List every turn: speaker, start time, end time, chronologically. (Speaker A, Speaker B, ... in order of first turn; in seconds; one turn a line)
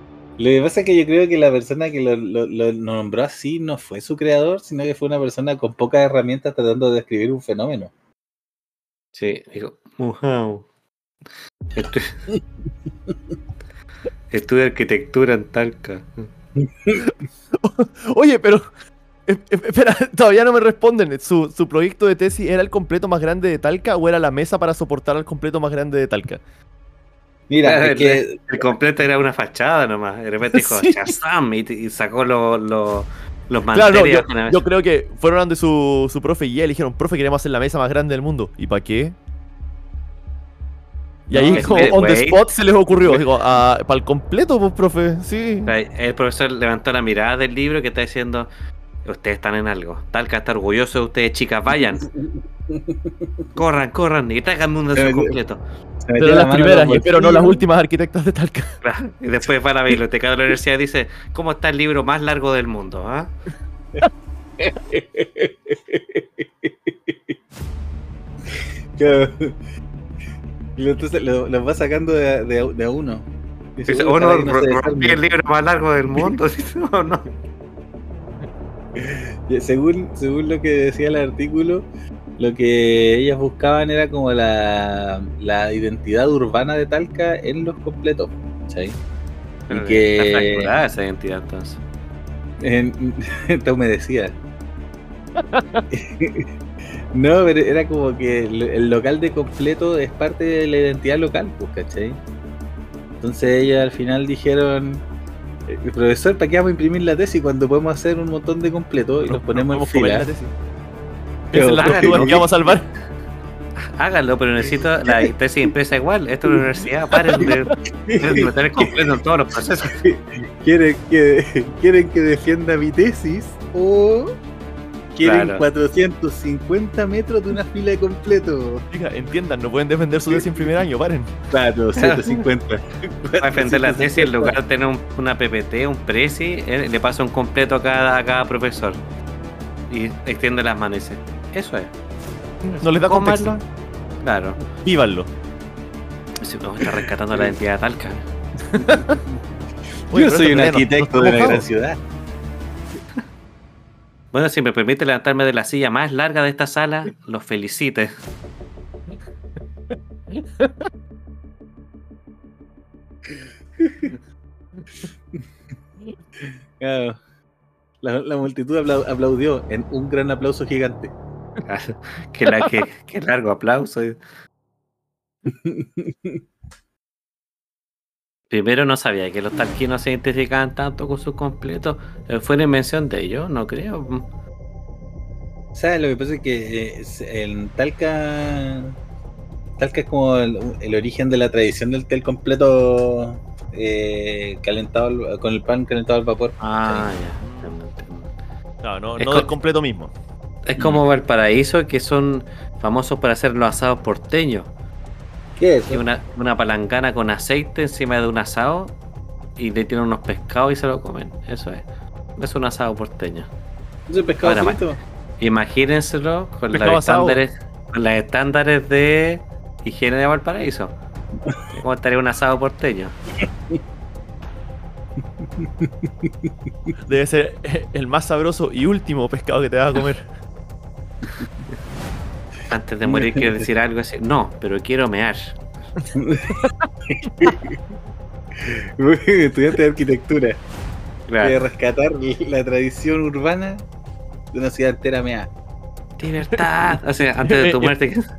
Speaker A: 0.4-7.9
Speaker B: 9.2-10.7
Speaker B: 11.7-12.2
Speaker B: 14.3-16.3
Speaker C: 17.0-18.6
Speaker C: 19.2-26.4
Speaker A: 27.5-28.5
Speaker B: 27.6-34.6
Speaker C: 30.5-31.1
Speaker C: 33.7-39.1
Speaker C: 41.3-45.7
Speaker A: 41.3-41.9
Speaker B: 41.5-43.3
Speaker B: 45.6-48.5
Speaker B: 49.0-52.1
Speaker A: 52.2-53.4
Speaker B: 53.5-55.6
Speaker A: 55.0-55.4
Speaker A: 56.0-57.6
Speaker C: 56.2-58.7
Speaker B: 58.8-63.3
Speaker A: 64.6-67.3
Speaker A: 68.5-69.5
Speaker A: 70.8-75.2
Speaker B: 73.9-77.3
Speaker A: 78.9-81.8
Speaker A: 82.4-89.0
Speaker B: 89.7-91.8
Speaker A: 89.7-90.7
Speaker A: 92.6-94.3
Speaker C: 95.4-95.8
Speaker A: 95.9-96.5
Speaker A: 97.1-102.2
Speaker A: 103.2-105.0
Speaker A: 105.7-110.2
Speaker C: 109.3-110.5
Speaker C: 111.5-112.9
Speaker A: 111.5-112.5
Speaker B: 111.8-112.3
Speaker B: 113.8-120.0
Speaker A: 114.7-115.3
Speaker A: 118.0-119.1
Speaker A: 119.8-124.4
Speaker A: 125.1-128.8
Speaker B: 125.2-125.6
Speaker C: 128.9-131.3
Speaker A: 130.3-130.7
Speaker A: 131.5-134.5
Speaker B: 132.0-132.4
Speaker B: 133.4-139.0
Speaker B: 139.9-141.9
Speaker C: 142.6-143.6
Speaker B: 142.9-143.6
Speaker B: 144.2-144.6
Speaker C: 144.8-145.3
Speaker B: 146.4-148.2
Speaker C: 148.7-149.2
Speaker C: 150.1-151.7
Speaker A: 150.1-152.0
Speaker B: 154.3-158.1
Speaker C: 160.4-160.8
Speaker A: 163.8-164.1
Speaker A: 166.4-167.2
Speaker A: 168.0-171.1
Speaker B: 171.6-174.2
Speaker A: 175.5-176.4
Speaker B: 178.5-184.3
Speaker A: 185.7-188.9
Speaker A: 189.8-197.1
Speaker B: 196.6-198.3
Speaker C: 197.4-197.7
Speaker C: 198.8-200.1
Speaker B: 199.2-199.5
Speaker B: 200.7-204.7
Speaker A: 205.6-206.0
Speaker B: 205.9-208.9
Speaker B: 209.6-211.8
Speaker B: 212.4-213.5
Speaker A: 214.1-215.0
Speaker B: 214.4-214.8
Speaker B: 215.4-220.9
Speaker C: 216.7-217.4
Speaker B: 221.7-223.2
Speaker A: 225.6-225.9
Speaker C: 227.0-230.3
Speaker B: 232.7-235.6
Speaker A: 233.0-233.7
Speaker A: 236.1-237.8
Speaker A: 238.6-240.6
Speaker B: 241.3-241.6
Speaker A: 241.4-243.8
Speaker A: 244.5-245.5
Speaker B: 246.2-248.2
Speaker C: 246.5-247.9